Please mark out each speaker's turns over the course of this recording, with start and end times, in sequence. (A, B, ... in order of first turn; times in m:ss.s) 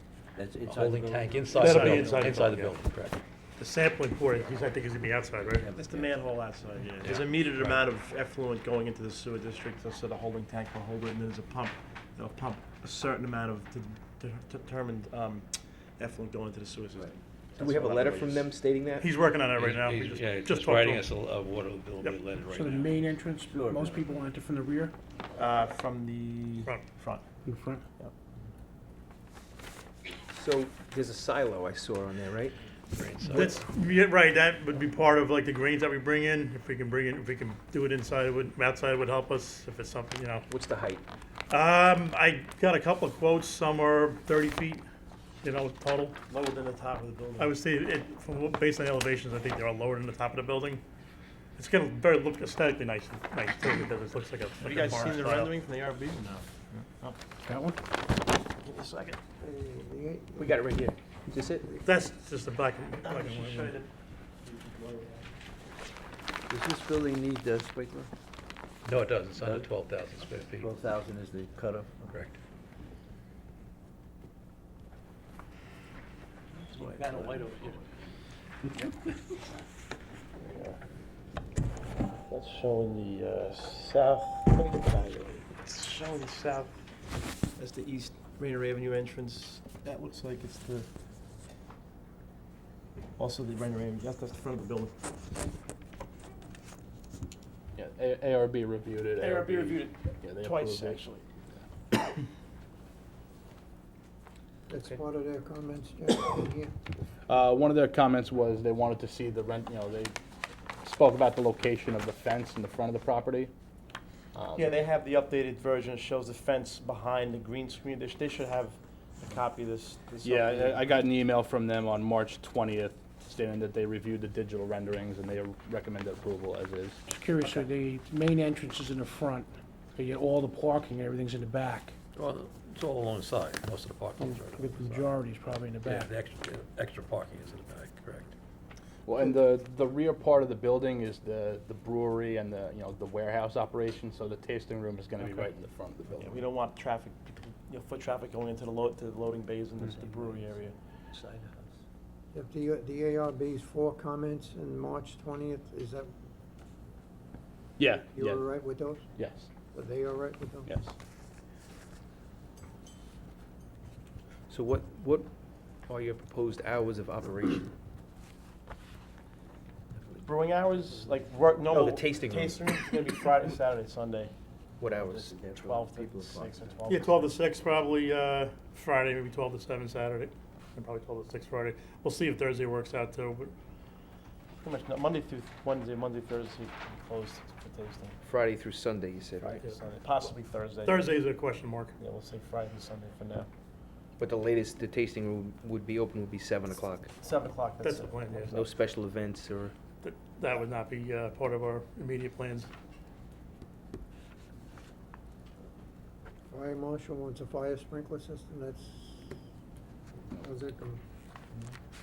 0:00.4-0:02.2 A
0:00.6-0:03.2 B
0:01.6-0:02.8 C
0:03.6-0:05.7 C
0:05.6-0:06.1 A
0:05.7-0:18.4 D
0:07.0-0:07.8 B
0:17.6-0:19.1 E
0:19.0-0:21.0 C
0:19.6-0:22.9 B
0:22.5-0:24.9 F
0:23.5-0:24.0 A
0:25.4-0:27.3 D
0:27.4-0:27.9 F
0:30.3-0:32.6 E
0:32.9-0:33.5 B
0:33.3-0:40.5 C
0:40.5-0:41.0 E
0:41.5-0:44.8 C
0:45.4-0:46.2 C
0:46.3-0:47.6 D
0:47.4-0:50.8 C
0:51.6-0:55.6 C
0:54.6-0:57.2 D
0:57.4-0:57.8 F
0:58.6-0:59.2 D
0:59.4-1:00.5 G
1:00.4-1:01.8 E
1:01.8-1:03.8 C
1:03.0-1:03.9 D
1:04.4-1:05.3 D
1:06.5-1:08.1 A
1:08.8-1:10.7 B
1:09.4-1:09.7 A
1:10.6-1:11.9 A
1:12.0-1:12.4 B
1:16.7-1:17.8 D
1:16.8-1:17.4 A
1:20.4-1:20.8 D
1:22.3-1:26.7 D
1:27.6-1:30.9 D
1:33.2-1:35.0 D
1:37.8-1:41.0 H
1:39.2-1:41.2 D
1:44.7-1:46.7 G
1:47.3-1:50.1 H
1:50.8-1:53.5 H
1:54.4-1:54.7 E
1:54.4-2:01.0 D
2:00.2-2:07.0 H
2:07.1-2:12.0 F
2:12.2-2:15.1 B
2:14.2-2:16.1 F
2:15.8-2:18.3 B
2:19.1-2:26.4 H
2:26.1-2:30.8 D
2:29.9-2:30.5 A
2:31.1-2:31.7 A
2:32.3-2:36.1 G
2:37.8-2:38.5 H
2:38.0-2:39.0 G
2:39.2-2:39.5 H
2:39.7-2:40.7 G
2:40.7-2:40.9 H
2:44.5-2:45.3 E
2:45.9-2:47.7 E
2:50.2-2:54.3 D
2:51.7-2:52.9 E
2:54.8-2:56.4 E
2:55.0-2:56.9 A
2:55.4-2:57.4 D
2:56.9-3:03.5 C
3:04.6-3:08.2 D
3:08.2-3:09.7 E
3:09.4-3:11.2 D
3:10.9-3:12.0 C
3:12.0-3:13.5 D
3:14.2-3:17.1 E
3:17.2-3:18.6 D
3:17.8-3:18.6 C
3:18.5-3:19.7 E
3:20.0-3:22.7 C
3:26.5-3:29.3 G
3:30.4-3:31.0 G